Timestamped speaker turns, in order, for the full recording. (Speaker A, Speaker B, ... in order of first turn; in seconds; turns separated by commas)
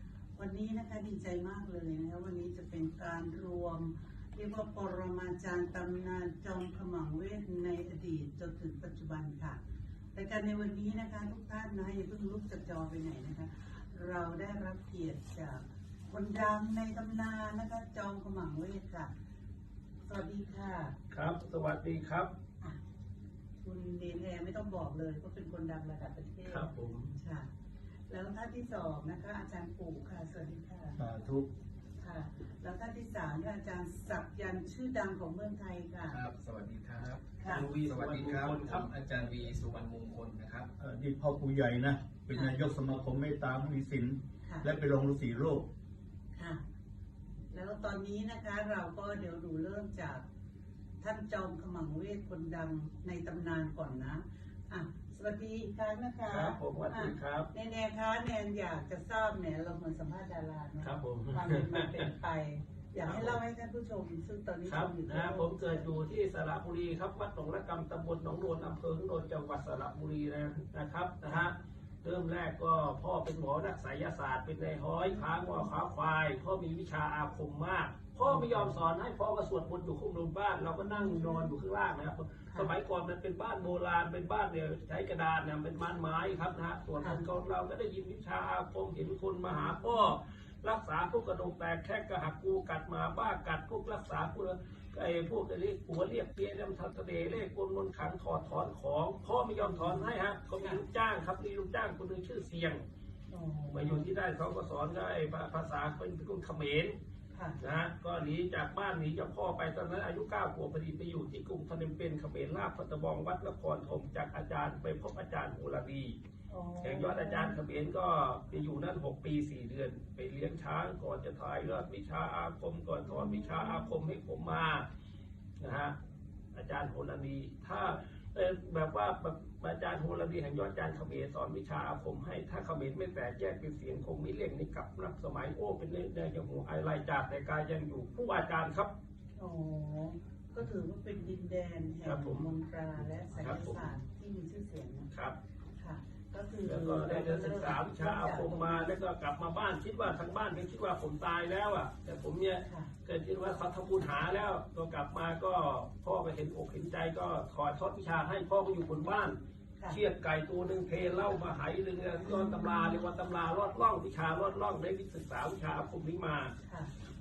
Speaker A: 0.3-9.6, Speaker A: 10.1-19.1, Speaker A: 20.1-20.9, Speaker B: 21.1-22.3, Speaker A: 23.6-27.5, Speaker B: 26.4-27.1, Speaker A: 28.1-31.0, Speaker C: 31.0-31.5, Speaker A: 32.0-36.2, Speaker D: 36.1-40.7, Speaker A: 37.4-37.6, Speaker B: 37.4-38.9, Speaker C: 40.8-45.7, Speaker A: 46.3-46.6, Speaker A: 47.5-50.2, Speaker A: 51.0-65.9, Speaker B: 56.3-57.5, Speaker B: 60.8-62.1, Speaker B: 63.0-63.4, Speaker B: 64.7-102.8, Speaker A: 75.0-75.7, Speaker A: 78.2-78.8, Speaker A: 80.8-81.5, Speaker A: 87.0-87.2, Speaker A: 89.5-90.1, Speaker A: 99.6-100.1, Speaker A: 103.3-104.0, Speaker B: 103.7-107.0, Speaker A: 107.3-107.6, Speaker B: 107.6-116.2, Speaker A: 116.5-117.6, Speaker B: 116.8-124.9, Speaker A: 123.0-124.0, Speaker B: 125.6-126.0, Speaker B: 126.5-138.9, Speaker A: 139.4-145.1, Speaker B: 142.0-142.5, Speaker B: 143.3-143.9, Speaker A: 145.8-148.9, Speaker B: 146.6-159.4, Speaker A: 152.6-152.9, Speaker B: 159.9-166.5, Speaker A: 162.3-163.0, Speaker A: 166.6-166.9